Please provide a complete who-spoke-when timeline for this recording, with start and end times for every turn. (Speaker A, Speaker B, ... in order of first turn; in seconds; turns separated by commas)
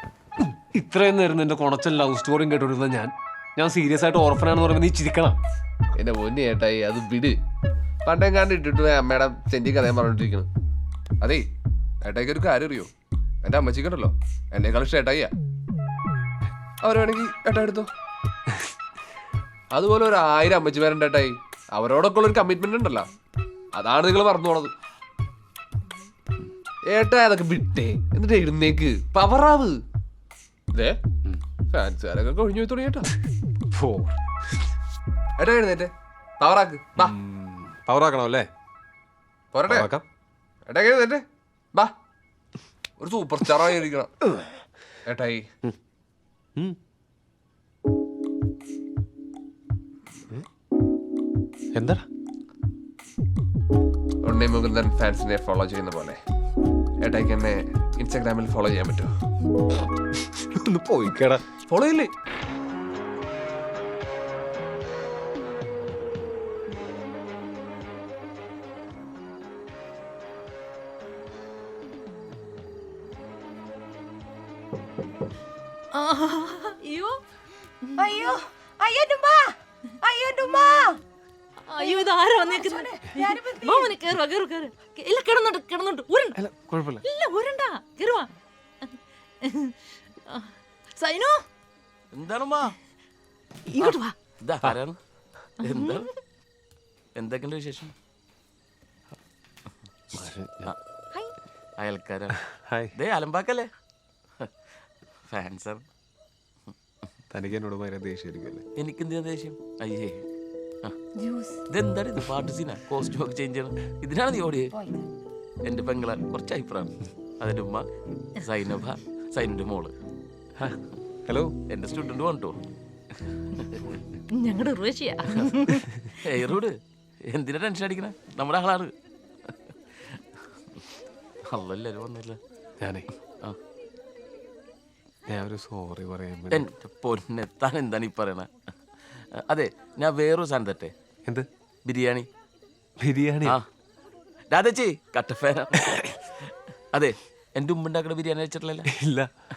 Speaker A: 0.4-5.4, Speaker B: 6.0-7.4, Speaker B: 8.1-10.5, Speaker B: 12.0-12.9, Speaker B: 13.4-15.3, Speaker B: 16.8-17.9, Speaker B: 19.7-23.1, Speaker B: 23.7-24.7, Speaker B: 26.9-29.8, Speaker B: 31.7-33.1, Speaker A: 33.7-34.2, Speaker B: 35.4-37.2, Speaker A: 37.0-38.5, Speaker B: 39.5-39.9, Speaker A: 39.7-40.0, Speaker B: 40.7-41.9, Speaker B: 43.0-44.1, Speaker B: 45.0-45.5, Speaker A: 51.7-52.1, Speaker B: 54.2-56.2, Speaker B: 57.0-59.1, Speaker A: 60.4-61.4, Speaker B: 61.6-62.1, Speaker C: 75.9-77.2, Speaker C: 77.8-78.1, Speaker D: 78.0-81.0, Speaker C: 81.7-86.4, Speaker D: 81.8-84.0, Speaker A: 86.4-87.0, Speaker C: 87.0-91.4, Speaker E: 92.1-92.8, Speaker C: 93.7-94.2, Speaker E: 93.8-95.0, Speaker C: 95.6-96.1, Speaker E: 95.6-96.1, Speaker E: 97.2-97.9, Speaker A: 100.1-100.7, Speaker E: 101.8-102.4, Speaker A: 102.5-102.9, Speaker E: 103.0-103.7, Speaker E: 105.3-105.8, Speaker A: 107.3-108.7, Speaker E: 108.8-110.2, Speaker D: 111.2-111.6, Speaker E: 111.7-114.8, Speaker D: 114.7-115.0, Speaker E: 115.7-117.9, Speaker E: 118.4-119.9, Speaker A: 120.6-121.5, Speaker E: 121.7-122.6, Speaker E: 123.3-124.0, Speaker C: 124.3-126.0, Speaker E: 126.2-126.8, Speaker E: 127.3-128.9, Speaker E: 130.1-130.8, Speaker E: 131.5-132.4, Speaker A: 132.8-133.1, Speaker A: 135.3-136.7, Speaker E: 136.5-138.5, Speaker E: 139.4-140.9, Speaker E: 141.9-142.3, Speaker A: 143.0-143.6, Speaker E: 144.5-148.9, Speaker A: 145.8-146.2, Speaker A: 148.9-149.3